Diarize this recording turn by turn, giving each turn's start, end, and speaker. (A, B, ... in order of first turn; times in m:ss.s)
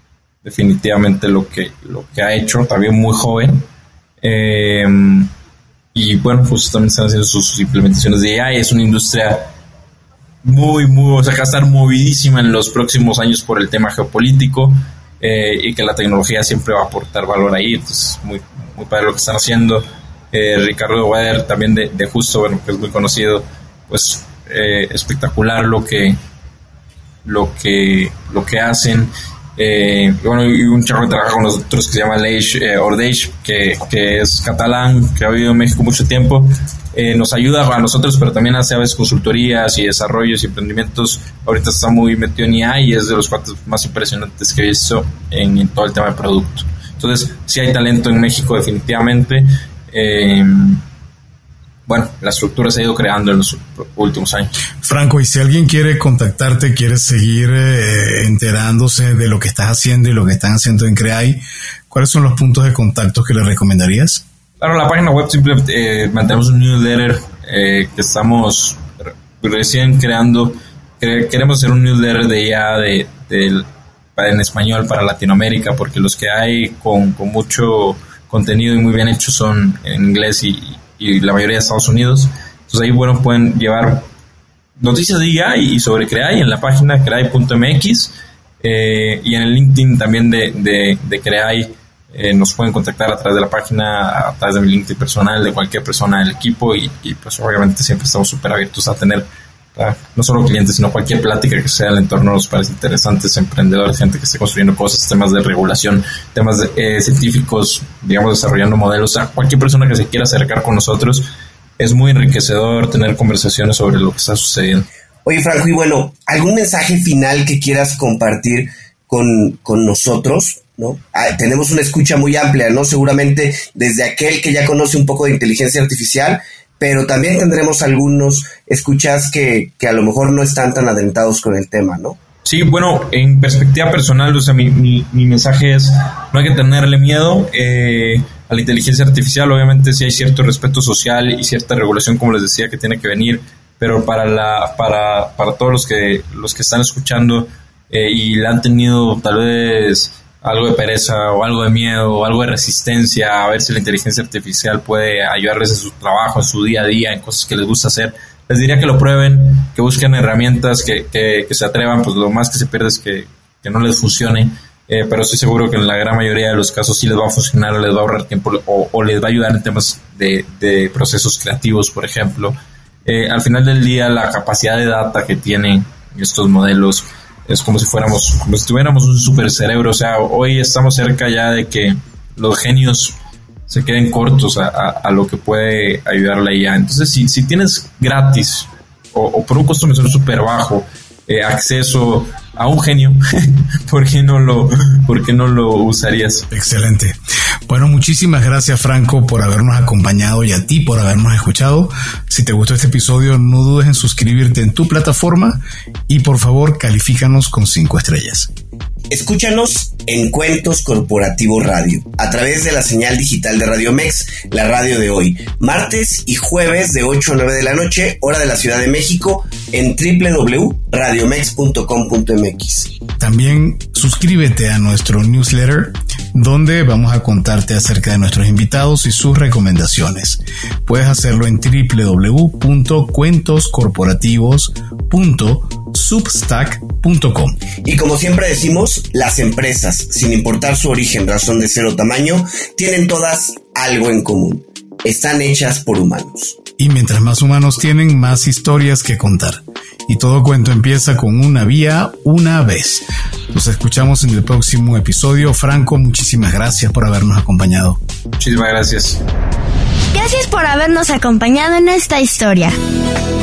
0:00.4-0:03.6 A
0:04.2-0:05.3 A
0:05.9-0:09.5 A
0:10.4-0:26.2 A
0:27.2-0:50.8 A
0:51.9-0:54.5 A
0:54.8-1:04.2 B
1:04.6-1:24.0 A
1:24.8-1:54.9 A
1:55.2-2:12.2 C
2:12.4-3:03.2 A
3:03.7-3:16.4 A
3:16.5-3:28.5 B
3:29.1-3:42.9 C
3:43.2-3:57.6 B
3:57.8-4:06.6 C
4:06.8-4:18.0 B
4:18.4-4:19.2 A
4:20.1-4:22.8 D